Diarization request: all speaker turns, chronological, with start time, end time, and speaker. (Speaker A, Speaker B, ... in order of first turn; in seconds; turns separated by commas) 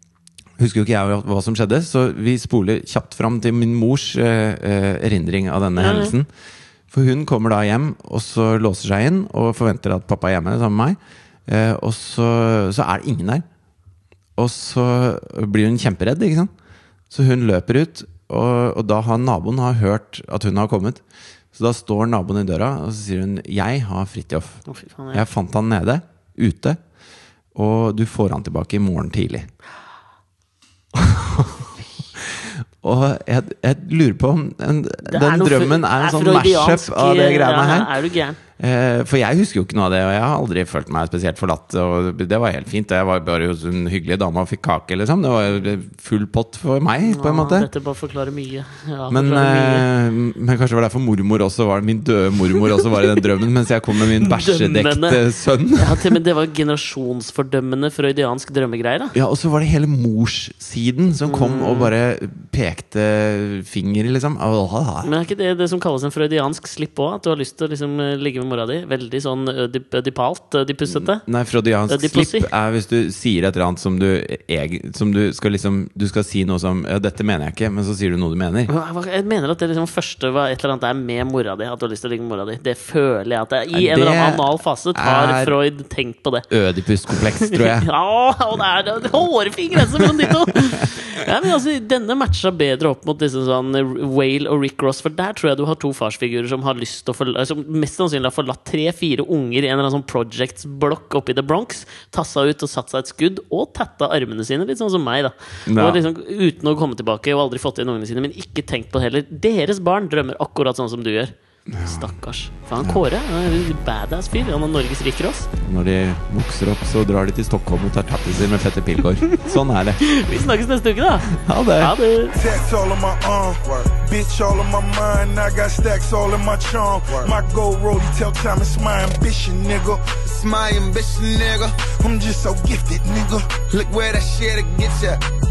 Speaker A: 0.6-6.3, Speaker B: 5.8-6.1, Speaker A: 6.9-13.4, Speaker A: 14.4-16.5, Speaker A: 17.1-21.0, Speaker A: 21.5-26.8, Speaker B: 24.7-25.2, Speaker A: 27.6-29.5, Speaker A: 30.9-37.9, Speaker B: 35.1-38.4, Speaker A: 38.6-47.7, Speaker B: 47.0-49.9, Speaker A: 49.1-56.2, Speaker B: 54.2-55.2, Speaker B: 55.8-59.1, Speaker A: 59.1-65.1, Speaker B: 61.2-61.9, Speaker B: 65.0-71.2, Speaker A: 70.9-78.7, Speaker B: 71.9-72.5, Speaker B: 78.7-86.5, Speaker A: 83.7-85.6, Speaker A: 86.5-87.9, Speaker B: 87.1-115.5, Speaker A: 89.7-90.2, Speaker A: 105.7-106.0, Speaker A: 111.7-112.1, Speaker A: 115.6-120.1, Speaker B: 119.5-122.3, Speaker A: 121.3-121.9, Speaker C: 122.3-130.2, Speaker D: 130.2-131.8, Speaker C: 131.8-133.7, Speaker D: 133.7-135.2